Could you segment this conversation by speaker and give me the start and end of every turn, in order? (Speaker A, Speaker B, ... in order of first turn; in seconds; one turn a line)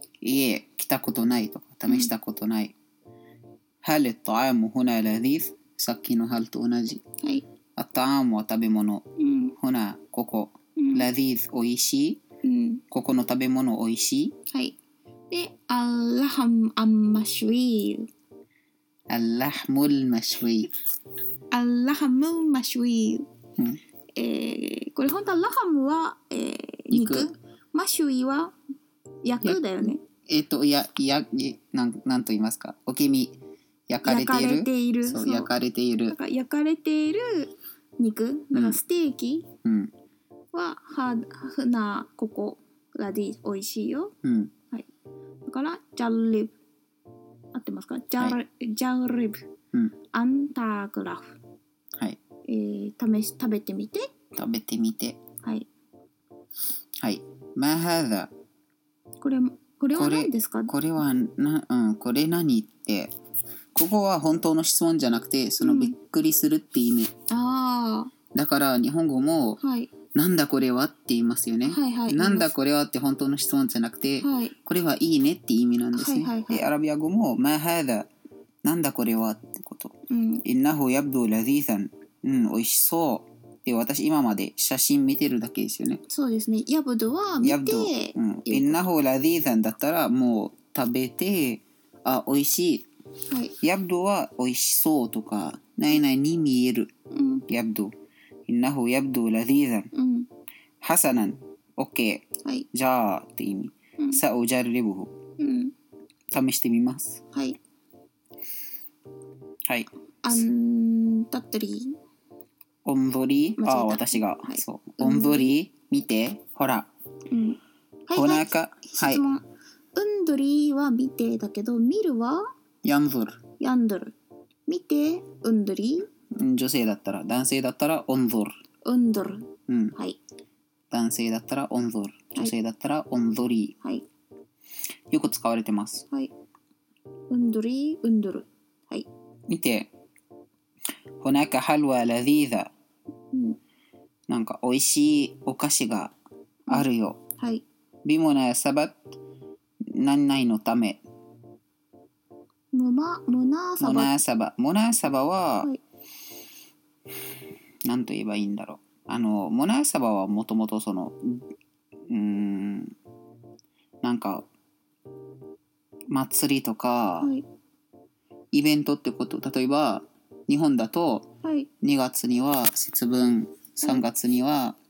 Speaker A: 0.2-2.7
Speaker A: 3.8-7.0
Speaker A: 7.8-9.0
Speaker B: 9.2-9.5
Speaker A: 9.6-12.2
Speaker B: 10.8-11.1
Speaker B: 12.4-12.8
Speaker A: 12.9-14.3
Speaker B: 15.3-18.1
Speaker A: 19.1-20.7
Speaker B: 21.5-23.3
Speaker B: 24.2-28.6
Speaker A: 26.9-27.3
Speaker B: 29.2-30.0
Speaker A: 30.3-33.4
Speaker A: 33.9-36.2
Speaker B: 34.0-35.5
Speaker B: 36.1-39.5
Speaker A: 38.5-38.8
Speaker A: 39.6-39.9
Speaker B: 40.5-44.1
Speaker A: 44.2-44.5
Speaker B: 45.5-46.5
Speaker B: 47.5-49.4
Speaker B: 50.1-51.3
Speaker B: 52.5-54.1
Speaker A: 54.4-55.2
Speaker A: 57.0-58.3
Speaker B: 59.2-60.7
Speaker A: 59.9-63.1
Speaker A: 63.8-67.1
Speaker B: 65.6-66.0
Speaker B: 67.3-68.1
Speaker A: 68.3-69.6
Speaker B: 69.6-69.9
Speaker A: 70.1-78.1
Speaker B: 71.7-72.5
Speaker B: 74.2-74.5
Speaker B: 75.9-76.7
Speaker A: 78.6-86.0
Speaker B: 80.1-80.5
Speaker B: 86.1-88.8
Speaker A: 87.4-92.9
Speaker B: 93.3-93.5
Speaker A: 93.6-96.9
Speaker B: 97.1-97.5
Speaker A: 97.5-97.9
Speaker A: 98.5-99.9
Speaker B: 99.9-100.3
Speaker A: 100.8-105.1
Speaker B: 105.4-105.7
Speaker A: 106.3-107.2
Speaker B: 107.3-107.6
Speaker B: 110.2-112.0
Speaker A: 112.8-116.9
Speaker B: 113.6-115.5
Speaker B: 117.3-119.4
Speaker A: 118.1-119.2
Speaker B: 120.0-122.5
Speaker A: 122.8-123.4
Speaker B: 123.6-124.2
Speaker B: 124.7-126.1
Speaker A: 126.3-128.6
Speaker B: 128.8-130.2
Speaker A: 129.7-130.0
Speaker A: 130.9-133.8
Speaker A: 135.1-136.1
Speaker B: 137.3-139.1
Speaker A: 139.5-139.9
Speaker A: 141.2-142.7
Speaker B: 143.3-143.6
Speaker A: 144.3-146.1
Speaker A: 146.7-147.2
Speaker B: 147.4-147.6
Speaker A: 148.1-149.1
Speaker A: 149.9-151.0
Speaker B: 152.7-154.1
Speaker A: 153.8-155.7
Speaker A: 157.8-161.4
Speaker A: 162.1-162.9
Speaker A: 164.0-164.5
Speaker A: 166.1-167.3
Speaker A: 168.5-171.3
Speaker B: 171.4-171.7
Speaker A: 171.8-174.8